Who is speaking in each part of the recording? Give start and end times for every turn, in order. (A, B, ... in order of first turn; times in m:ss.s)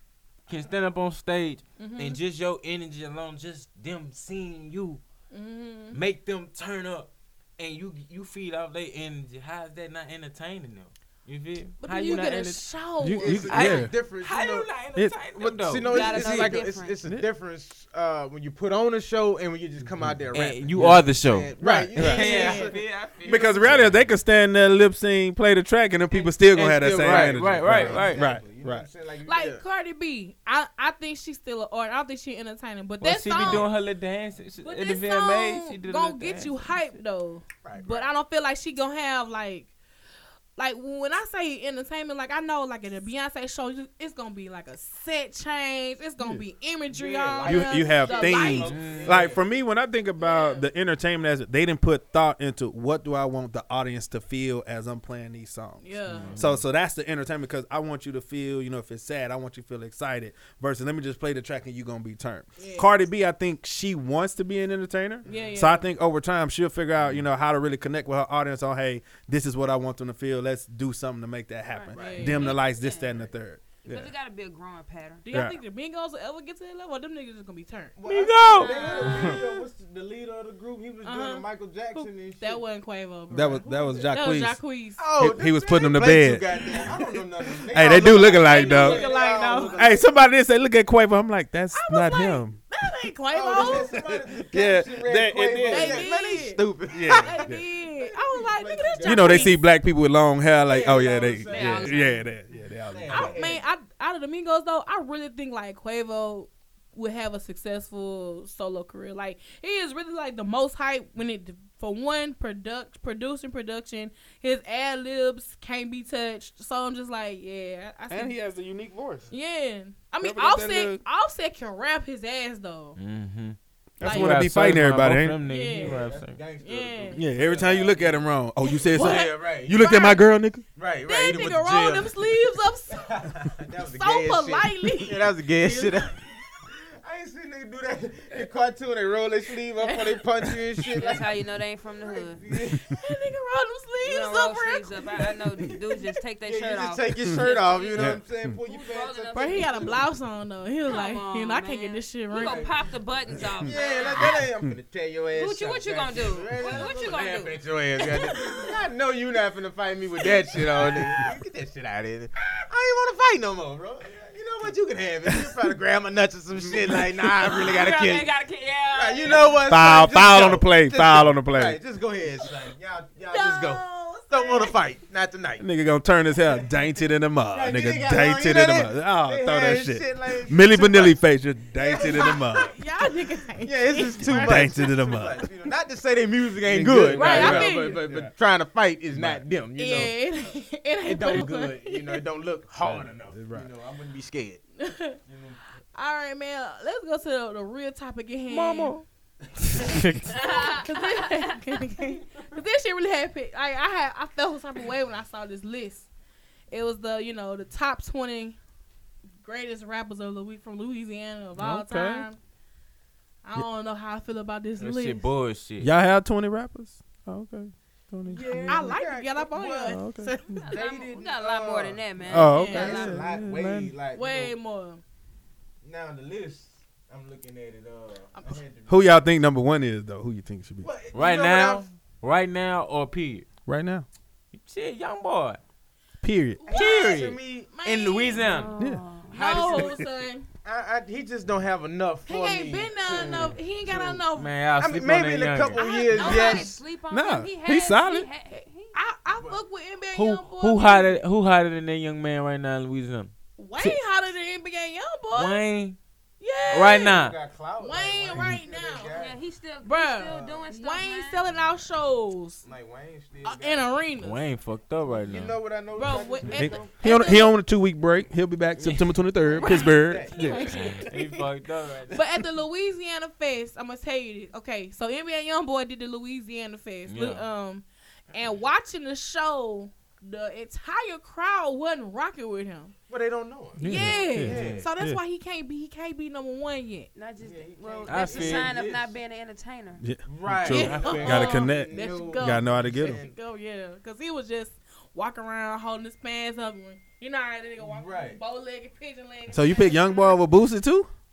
0:00.5-0:05.0 A
0:01.8-0:02.2 B
0:05.3-0:06.0 B
0:05.9-0:12.7 A
0:11.8-0:13.5 B
0:13.0-0:13.9 C
0:13.2-0:14.7 D
0:13.3-0:16.6 A
0:15.3-0:23.9 D
0:15.8-0:17.0 E
0:19.8-0:20.2 C
0:20.3-0:23.9 A
0:20.8-0:21.0 C
0:21.6-0:22.5 C
0:22.1-0:22.8 B
0:23.2-0:28.9 C
0:26.1-0:29.6 D
0:26.5-0:28.3 A
0:29.2-0:33.7 B
0:33.0-0:37.0 A
0:34.6-0:39.7 B
0:37.6-0:38.1 D
0:40.6-0:48.8 B
0:46.9-0:49.4 D
0:47.4-1:14.1 C
0:48.6-0:49.2 A
0:50.2-0:50.7 B
0:55.8-0:56.4 B
0:56.1-0:56.6 A
1:02.6-1:03.0 B
1:05.2-1:05.6 D
1:05.2-1:05.9 B
1:11.7-1:13.3 E
1:11.9-1:12.5 D
1:11.9-1:12.6 B
1:13.8-1:15.2 E
1:15.2-1:18.0 B
1:15.3-1:15.6 C
1:18.0-1:22.6 D
1:18.0-1:18.9 A
1:18.6-1:19.6 E
1:18.8-1:19.3 B
1:21.0-1:25.0 B
1:23.3-1:24.6 C
1:23.6-1:24.1 D
1:25.0-1:30.1 D
1:25.2-1:27.0 C
1:27.7-1:29.1 C
1:28.0-1:30.0 B
1:29.7-1:32.6 C
1:31.7-1:33.9 B
1:33.3-1:39.5 D
1:33.5-1:36.1 C
1:35.7-1:39.6 B
1:36.9-1:37.6 C
1:39.0-1:43.4 C
1:40.7-1:42.0 D
1:41.5-1:42.2 E
1:42.9-1:43.6 D
1:43.1-1:58.4 B
1:58.1-1:59.3 C
1:59.3-2:03.0 B
2:00.2-2:01.0 C
2:03.0-2:06.4 A
2:04.0-2:04.5 B
2:04.0-2:05.4 C
2:05.4-2:06.0 B
2:05.7-2:09.9 D
2:06.6-2:07.2 B
2:07.1-2:10.6 C
2:08.9-2:10.2 B
2:10.8-2:12.1 D
2:11.1-2:13.3 B
2:12.9-2:21.4 D
2:13.9-2:16.0 B
2:19.8-2:20.1 B
2:20.9-2:22.4 E
2:22.0-2:22.9 D
2:22.7-2:25.4 B
2:24.0-2:30.0 E
2:26.4-2:30.1 D
2:28.0-2:28.6 C
2:29.3-2:32.7 B
2:30.9-2:34.5 E
2:32.4-2:32.7 D
2:33.6-2:48.3 D
2:35.3-2:38.7 E
2:45.3-2:45.6 C
2:46.7-2:47.2 C
2:47.5-2:49.6 E
2:48.9-2:55.7 D
2:49.7-2:51.8 C
2:53.3-2:54.8 B
2:55.6-3:02.8 C
2:57.5-3:01.2 D
3:01.8-3:02.7 D
3:01.9-3:04.7 B
3:03.6-3:10.2 D
3:04.2-3:05.5 C
3:06.6-3:08.3 C
3:07.1-3:08.0 B
3:09.1-3:09.4 C
3:09.8-3:12.2 B
3:11.1-3:14.6 D
3:12.8-3:13.7 C
3:14.8-3:15.2 B
3:15.2-3:15.6 D
3:16.0-3:19.0 B
3:18.5-3:19.0 A
3:19.8-3:20.4 A
3:20.3-3:26.1 B
3:20.3-3:21.8 E
3:26.7-3:28.6 B
3:29.4-3:32.4 B
3:31.6-3:32.3 C
3:33.4-3:35.3 B
3:34.8-3:35.9 A
3:35.8-3:39.0 C
3:38.3-3:40.0 D
3:38.7-3:40.6 B
3:39.9-3:40.6 C
3:40.6-3:43.2 E
3:40.7-3:44.5 D
3:42.3-3:43.9 C
3:42.4-3:42.9 B
3:44.1-3:45.0 B
3:45.8-3:49.1 D
3:48.4-3:48.6 B
3:48.9-3:50.9 C
3:50.8-3:51.9 D
3:51.1-3:53.5 A
3:53.7-3:54.1 C
3:54.5-3:55.6 A
3:56.2-3:56.6 C
3:56.6-3:58.6 B
3:56.7-3:58.5 D
3:56.7-3:58.7 A
3:58.4-3:59.7 E
3:58.8-3:59.0 C
3:59.3-4:00.5 B
3:59.4-3:59.8 A
3:59.4-3:59.8 D
3:59.8-4:00.0 C
4:00.6-4:06.8 D
4:02.3-4:04.5 B
4:04.4-4:05.8 A
4:05.7-4:06.8 B
4:05.8-4:09.0 E
4:07.1-4:08.3 C
4:08.9-4:11.2 B
4:09.3-4:09.6 D
4:10.1-4:14.0 A
4:13.6-4:15.7 B
4:15.3-4:16.0 A
4:16.4-4:17.2 B
4:16.7-4:19.4 D
4:16.7-4:17.4 A
4:17.8-4:19.2 B
4:19.1-4:21.5 E
4:19.8-4:22.7 B
4:20.3-4:20.6 D
4:22.6-4:24.0 D
4:23.4-4:24.4 B
4:24.2-4:25.6 A
4:25.1-4:26.9 D
4:26.0-4:27.6 B
4:26.5-4:30.5 C
4:28.8-4:29.1 A
4:29.4-4:30.8 D
4:29.6-4:31.4 B
4:30.4-4:32.2 A
4:32.1-4:42.9 B
4:37.1-4:37.5 A
4:43.1-4:44.9 D
4:43.8-4:45.2 C
4:43.8-4:47.1 B
4:44.5-4:44.8 A
4:47.2-4:50.0 E
4:47.4-4:49.1 D
4:48.1-4:48.7 A
4:50.0-4:53.2 C
4:50.2-4:53.4 D
4:50.7-5:00.4 B
4:50.7-4:51.5 A
4:57.8-4:58.4 D
4:59.5-5:01.1 C